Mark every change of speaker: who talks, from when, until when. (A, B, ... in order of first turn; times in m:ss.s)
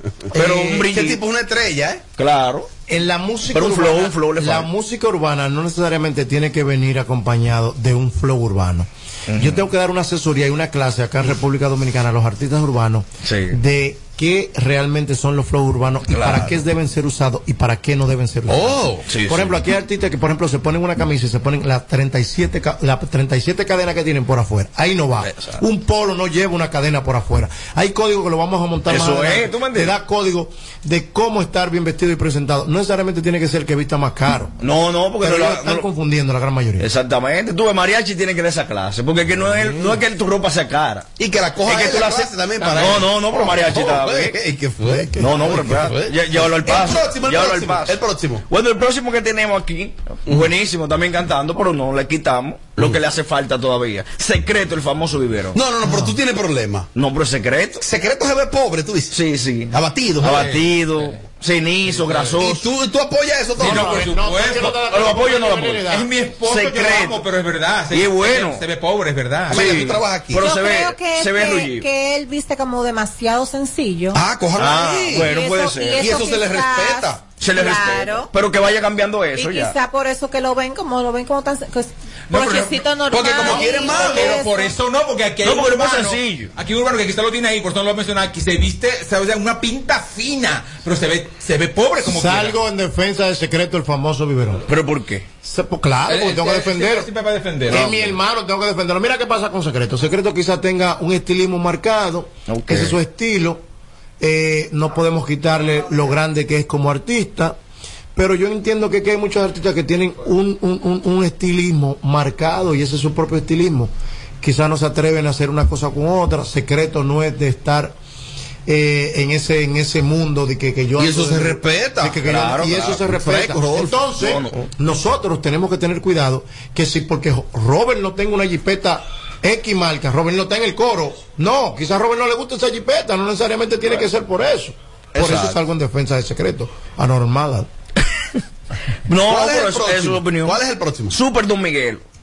0:00.3-0:02.0 A
0:00.4-0:01.2 B
0:00.4-0:00.9 C
0:02.2-0:02.7 B
0:02.9-0:34.5 C
0:03.5-0:04.7 B
0:09.3-0:09.6 B
0:13.2-0:13.6 B
0:16.1-0:16.5 B
0:18.5-0:19.1 A
0:19.1-0:19.6 B
0:25.2-0:25.6 B
0:28.9-0:29.9 B
0:34.6-0:35.9 B
0:35.2-0:36.9 C
0:36.8-0:41.1 B
0:39.4-0:40.0 C
0:41.2-0:48.4 A
0:41.6-0:44.4 B
0:42.6-0:42.9 D
0:44.9-0:45.6 C
0:45.2-0:55.6 B
0:55.5-0:56.9 A
0:57.0-0:57.8 B
0:57.8-0:59.2 A
0:59.1-1:02.7 B
0:59.7-1:00.4 A
1:00.2-1:01.2 D
1:01.8-1:02.4 D
1:02.4-1:04.1 A
1:03.6-1:04.8 D
1:03.6-1:06.1 C
1:04.9-1:05.8 B
1:05.8-1:09.7 D
1:06.4-1:07.2 B
1:07.9-1:08.6 B
1:09.5-1:10.5 A
1:09.5-1:11.9 B
1:10.4-1:14.2 E
1:14.1-1:15.4 A
1:14.6-1:16.2 B
1:15.1-1:18.3 E
1:16.0-1:17.3 A
1:17.3-1:19.8 B
1:19.3-1:24.8 E
1:22.3-1:32.6 D
1:23.4-1:24.4 A
1:25.4-1:26.5 B
1:32.0-1:34.7 C
1:34.7-1:35.2 B
1:35.4-1:37.1 C
1:36.1-1:38.0 D
1:37.7-1:43.6 C
1:42.5-1:43.0 B
1:44.2-1:47.6 C
1:48.1-1:58.0 C
1:58.7-2:17.7 C
2:01.0-2:02.2 A
2:02.2-2:03.0 B
2:03.0-2:04.0 A
2:04.1-2:04.6 B
2:15.1-2:15.6 B
2:19.1-2:22.0 B
2:19.2-2:21.1 A